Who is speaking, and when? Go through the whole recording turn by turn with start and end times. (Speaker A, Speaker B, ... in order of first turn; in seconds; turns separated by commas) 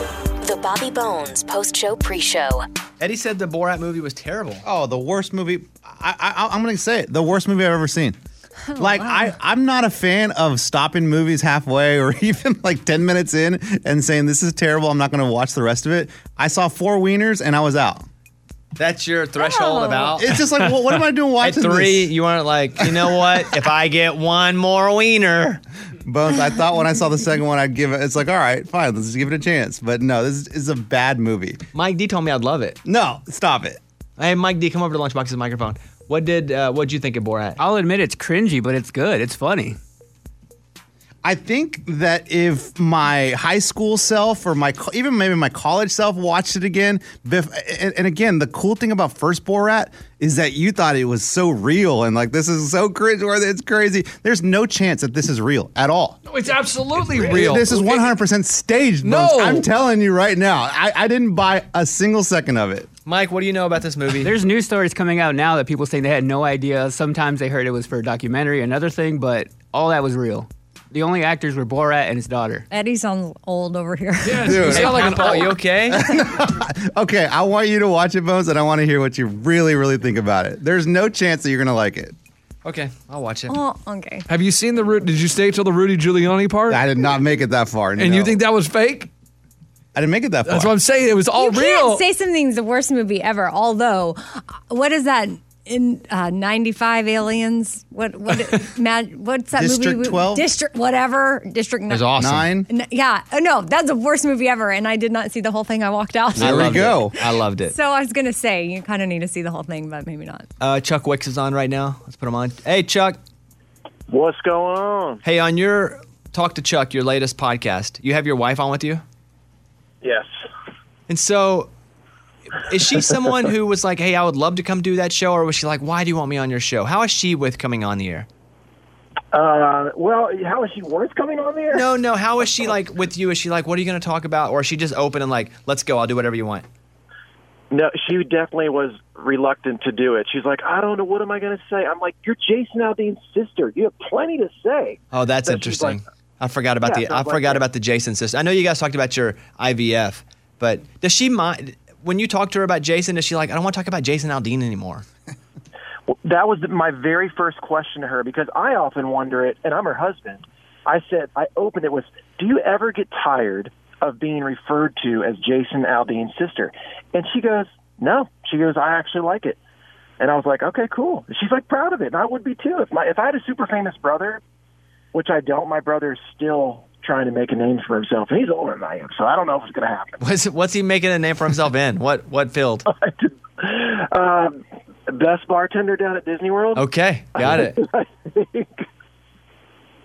Speaker A: 0.4-2.6, Speaker B: 3.0-4.6, Speaker C: 4.6-8.2, Speaker D: 8.7-9.3, Speaker C: 8.8-18.1, Speaker B: 18.8-20.4, Speaker D: 19.4-20.1, Speaker C: 20.2-22.1, Speaker B: 21.4-25.6, Speaker C: 22.8-23.4, Speaker C: 26.0-31.6, Speaker B: 31.7-32.8, Speaker C: 32.8-33.8, Speaker B: 34.2-37.6, Speaker E: 37.6-39.8, Speaker C: 41.2-56.2, Speaker F: 56.2-58.1, Speaker C: 57.1-62.9, Speaker F: 59.0-59.7, Speaker B: 63.0-64.3, Speaker E: 64.2-72.7, Speaker D: 72.7-75.3, Speaker F: 74.2-75.4, Speaker C: 74.4-82.1, Speaker B: 74.7-76.0, Speaker B: 82.6-83.6, Speaker D: 83.5-84.2, Speaker F: 84.3-86.8, Speaker C: 86.7-88.4, Speaker F: 88.0-89.1, Speaker C: 89.9-90.7, Speaker F: 90.5-92.0, Speaker D: 91.4-102.1, Speaker C: 99.5-100.4, Speaker B: 101.9-102.5, Speaker C: 102.2-102.7, Speaker D: 102.7-107.1, Speaker C: 106.3-107.1, Speaker B: 106.4-107.7, Speaker D: 107.7-110.5, Speaker B: 110.6-113.2, Speaker G: 114.1-115.2, Speaker B: 115.2-119.0, Speaker G: 120.0-120.3, Speaker B: 121.1-121.7, Speaker B: 122.5-128.3, Speaker G: 129.3-131.8, Speaker B: 131.7-136.6, Speaker G: 132.4-132.7, Speaker G: 137.7-146.0, Speaker B: 145.1-155.0, Speaker G: 146.8-147.6, Speaker G: 156.1-169.6, Speaker G: 170.2-174.4, Speaker G: 175.1-180.2, Speaker B: 180.2-182.8, Speaker G: 182.9-186.8, Speaker B: 186.8-187.8, Speaker G: 187.3-188.8